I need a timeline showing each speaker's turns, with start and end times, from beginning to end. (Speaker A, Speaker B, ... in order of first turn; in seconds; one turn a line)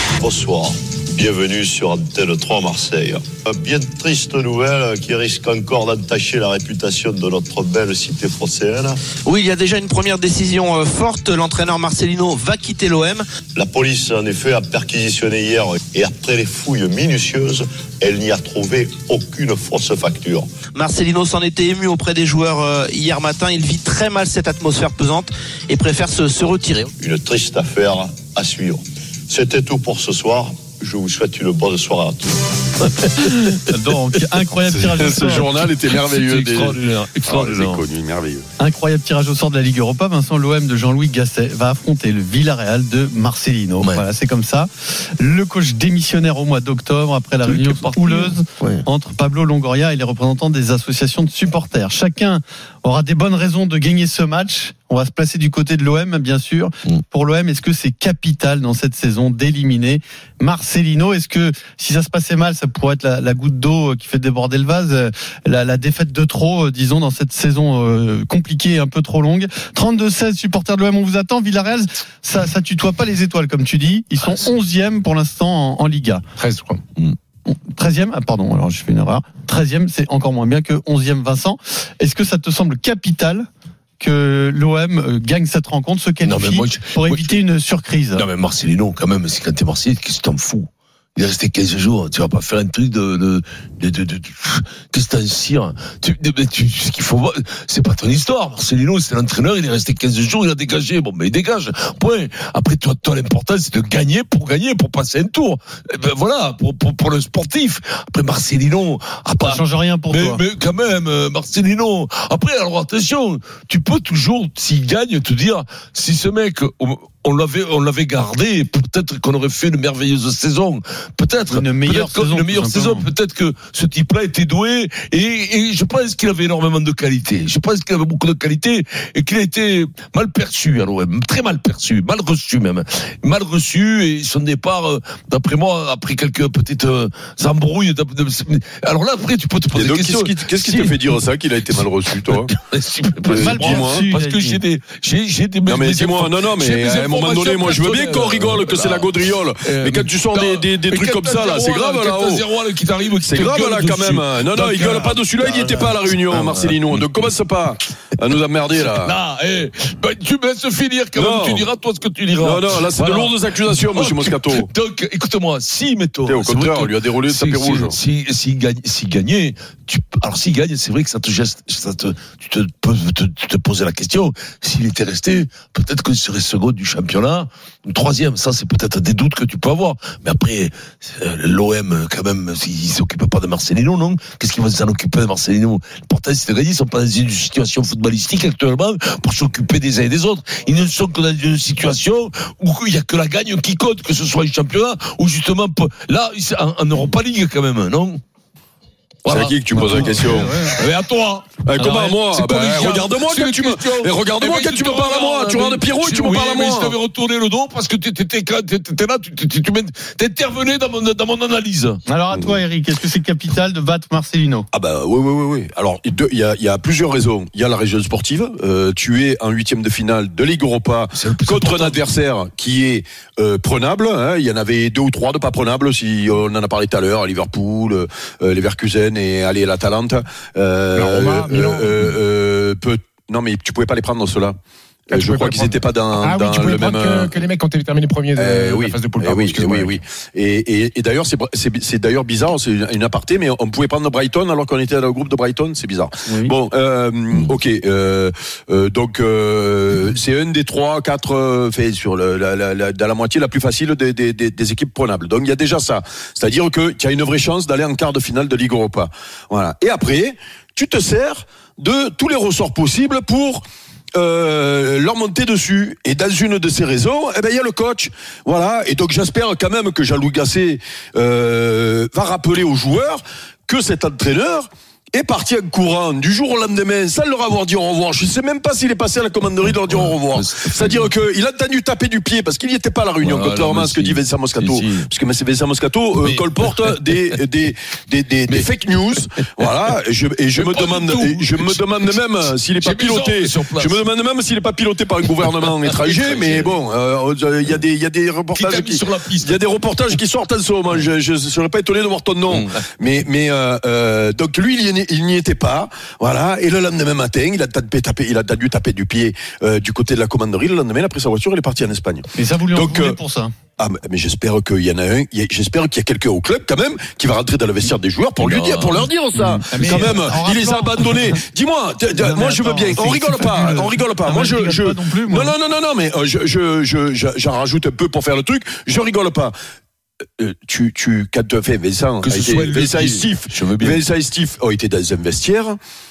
Speaker A: 0.2-9.0
Speaker B: 9.2-13.3
Speaker A: 13.5-20.6
Speaker B: 20.7-26.9
Speaker A: 27.0-32.4
Speaker C: 33.2-35.5
Speaker D: 34.7-38.5
Speaker E: 35.8-37.8
Speaker C: 38.6-76.2
Speaker E: 47.5-48.8
Speaker F: 76.4-76.8
Speaker C: 77.5-83.5
Speaker C: 84.0-88.2
Speaker E: 86.2-87.4
Speaker E: 88.1-157.3
Speaker C: 109.4-110.4
Speaker C: 121.5-123.1
Speaker D: 139.8-142.5
Speaker D: 143.2-144.0
Speaker C: 143.3-144.6
Speaker D: 145.7-152.4
Speaker D: 153.2-159.1
Speaker E: 158.7-198.2
Speaker D: 161.1-161.7
Speaker D: 162.4-164.7
Speaker D: 166.3-167.9
Speaker E: 199.2-201.6
Speaker D: 199.3-200.6
Speaker C: 199.8-200.8
Speaker D: 201.7-206.9
Speaker C: 201.8-202.2
Speaker E: 202.3-212.0
Speaker C: 212.1-214.7
Speaker D: 214.7-234.6
Speaker E: 221.2-222.1
Speaker F: 230.9-232.2
Speaker F: 235.1-239.9
Speaker D: 235.1-237.3
Speaker D: 238.3-313.2
Speaker C: 246.2-246.5
Speaker E: 279.6-281.1
Speaker E: 283.2-285.1
Speaker E: 286.2-287.4
Speaker E: 290.5-294.1
Speaker E: 295.4-296.8
Speaker E: 298.6-299.6
Speaker E: 302.5-302.8
Speaker C: 312.3-313.5
Speaker D: 313.8-329.5
Speaker E: 318.4-319.1
Speaker C: 319.6-321.4
Speaker E: 319.8-320.1
Speaker C: 322.2-325.5
Speaker D: 330.4-335.8
Speaker E: 332.2-334.0